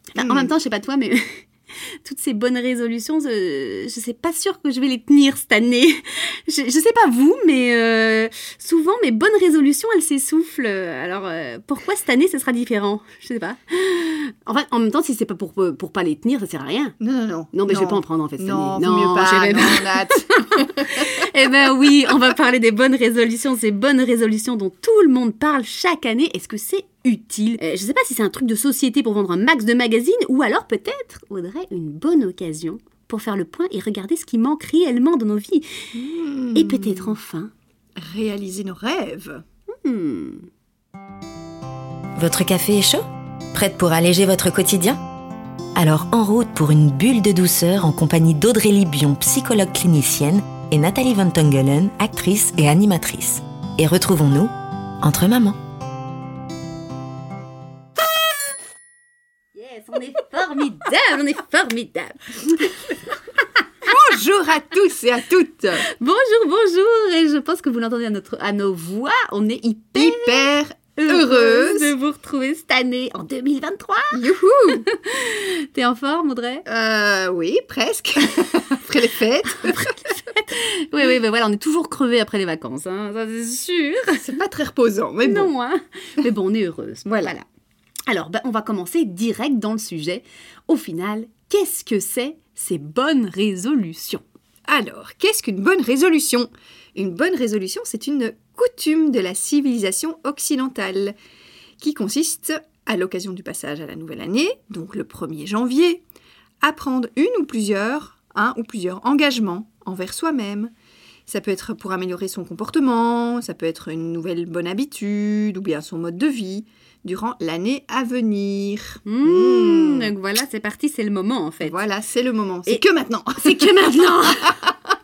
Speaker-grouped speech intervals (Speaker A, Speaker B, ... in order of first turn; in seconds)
Speaker A: 0.1-1.5, 2.0-17.0, 17.5-36.0, 36.5-37.5, 39.7-40.5, 59.5-63.1, 65.8-74.2, 74.8-76.7, 79.5-84.2, 85.2-87.4, 88.1-94.2, 119.0-121.8, 123.4-124.6
Speaker B: 0.2-0.5, 17.0-21.2, 35.9-37.2, 38.0-39.4, 63.8-65.8, 69.9-71.9, 74.1-74.8, 76.7-79.9, 84.2-85.5, 87.0-87.3, 94.7-101.2, 101.8-106.0, 106.6-110.7, 111.3-120.1, 121.6-124.7
Speaker C: 42.1-45.0, 45.7-55.6